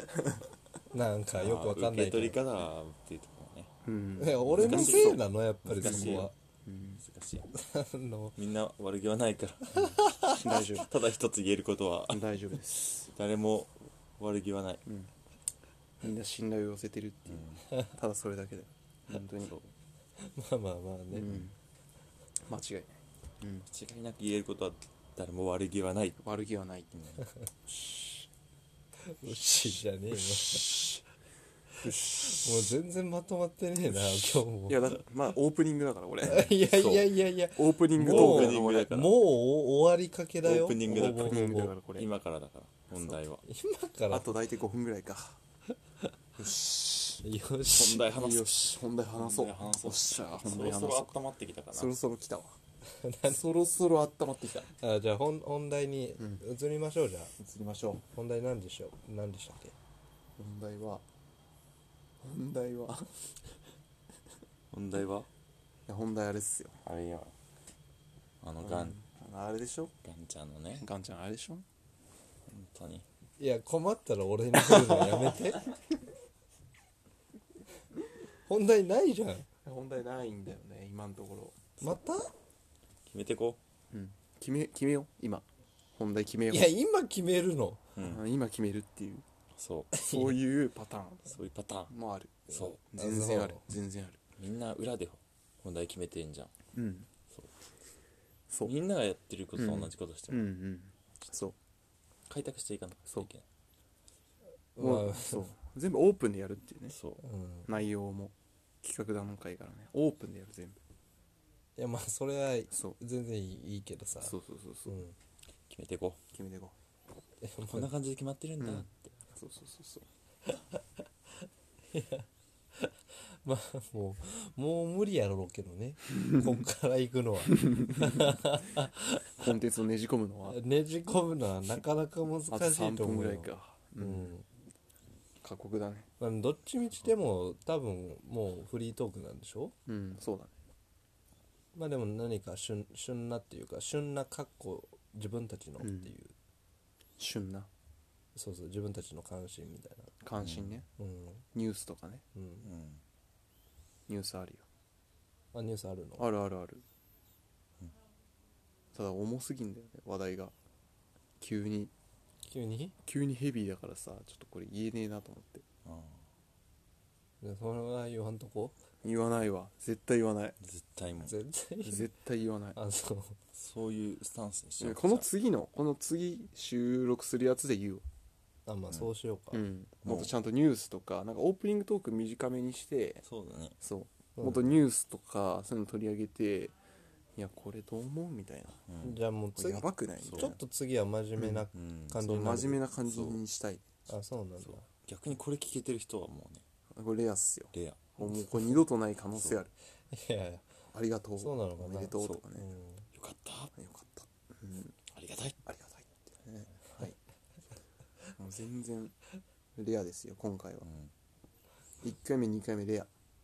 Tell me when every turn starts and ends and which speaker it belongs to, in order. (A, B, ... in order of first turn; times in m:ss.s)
0:00.9-0:02.4 A
0:01.4-0:03.7 B
0:03.8-0:07.0 C
0:04.2-0:06.3 A
0:04.5-0:06.3 B
0:07.0-0:07.5 B
0:07.6-0:08.4 A
0:08.4-0:12.4 B
0:09.8-0:10.4 A
0:10.4-0:10.9 C
0:12.1-0:13.1 C
0:13.1-0:14.9 B
0:14.9-0:15.1 C
0:16.0-0:19.6 C
0:17.3-0:17.6 B
0:19.4-0:19.7 B
0:20.2-0:21.4 A
0:21.1-0:21.5 C
0:22.4-0:23.7 C
0:23.7-0:26.2 B
0:26.2-0:26.9 C
0:26.9-0:27.2 B
0:27.7-0:28.3 C
0:29.1-0:30.7 A
0:30.1-0:31.0 C
0:31.8-0:32.7 C
0:32.2-0:34.9 A
0:33.9-0:36.6 C
0:36.2-0:41.8 A
0:36.6-0:37.2 B
0:37.6-0:39.1 C
0:37.9-0:39.2 B
0:40.4-0:43.4 B
0:41.2-0:42.1 C
0:42.9-0:43.2 C
0:43.4-0:44.3 A
0:44.1-0:45.4 C
0:46.4-0:47.2 C
0:47.2-0:48.1 A
0:47.7-0:51.9 B
0:47.9-0:51.1 C
0:51.7-0:52.6 C
0:52.9-0:53.4 A
0:53.3-0:54.7 C
0:54.8-0:57.3 A
0:56.2-0:56.4 C
0:57.4-0:58.0 C
0:58.1-0:59.8 A
1:00.4-1:01.0 C
1:02.2-1:03.3 C
1:04.7-1:05.3 B
1:05.9-1:06.8 C
1:06.8-1:07.3 B
1:08.4-1:09.0 B
1:08.6-1:09.9 C
1:10.0-1:10.9 B
1:10.8-1:11.6 C
1:12.5-1:13.0 B
1:13.4-1:15.6 A
1:14.6-1:15.4 C
1:18.5-1:19.5 A
1:19.6-1:21.8 C
1:21.8-1:22.3 A
1:23.1-1:23.6 B
1:23.9-1:26.7 C
1:26.5-1:27.8 A
1:28.0-1:28.2 B
1:28.0-1:29.3 C
1:29.6-1:29.9 B
1:29.9-1:30.4 A
1:30.0-1:31.4 C
1:31.3-1:31.9 B
1:31.9-1:34.2 C
1:32.5-1:32.8 B
1:32.5-1:33.6 A
1:34.4-1:36.5 B
1:36.7-1:37.1 C
1:38.5-1:38.7 C
1:38.6-1:40.5 B
1:39.6-1:41.6 C
1:42.3-1:43.4 B
1:44.8-1:45.5 A
1:44.8-1:47.0 C
1:46.9-1:47.2 B
1:47.2-1:47.7 A
1:47.7-1:50.8 C
1:51.8-1:54.4 A
1:52.7-1:53.0 C
1:54.2-1:55.0 C
1:54.9-1:55.2 A
1:55.7-1:56.2 B
1:56.3-1:56.8 C
1:57.4-1:57.9 A
1:57.7-1:59.1 B
1:58.6-2:00.1 C
2:01.9-2:09.5 A
2:09.4-2:10.6 C
2:10.5-2:14.5 A
2:12.5-2:14.3 C
2:15.4-2:16.1 C
2:16.2-2:19.8 A
2:19.9-2:20.5 C
2:21.8-2:26.3 A
2:25.8-2:26.1 C
2:27.2-2:27.7 C
2:28.4-2:30.1 A
2:30.2-2:30.9 C
2:30.4-2:30.8 B
2:31.0-2:31.4 A
2:31.5-2:32.2 C
2:32.4-2:32.7 A
2:32.6-2:33.0 B
2:34.1-2:34.7 C
2:35.5-2:36.3 A
2:36.2-2:36.8 C
2:38.9-2:40.5 C
2:41.4-2:41.9 C
2:42.5-2:43.0 A
2:43.0-2:45.7 C
2:45.8-2:46.2 B
2:47.4-2:48.8 A
2:49.0-2:50.6 C
2:50.6-2:51.4 B
2:51.2-2:52.1 A
2:51.8-2:52.8 C
2:52.8-2:53.4 A
2:53.5-2:55.3 B
2:54.8-2:58.0 C
2:58.7-2:59.6 A
2:59.5-3:03.2 C
3:00.0-3:00.3 B
3:03.3-3:03.8 B
3:03.8-3:06.7 C
3:04.4-3:04.8 A
3:07.4-3:08.8 C
3:08.9-3:09.2 B
3:09.0-3:12.8 A
3:09.6-3:10.6 C
3:10.2-3:10.6 B
3:11.4-3:11.7 C
3:11.7-3:13.4 B
3:12.2-3:13.9 C
3:14.1-3:14.9 A
3:14.7-3:16.6 B
3:16.9-3:19.7 C
3:17.7-3:18.7 B
3:20.1-3:20.6 A
3:20.9-3:22.7 C
3:21.4-3:23.1 A
3:23.2-3:23.7 B
3:23.8-3:25.0 C
3:25.1-3:25.6 B
3:25.7-3:27.2 C
3:28.4-3:29.2 C
3:29.8-3:30.9 C
3:30.8-3:31.1 B
3:32.0-3:33.1 C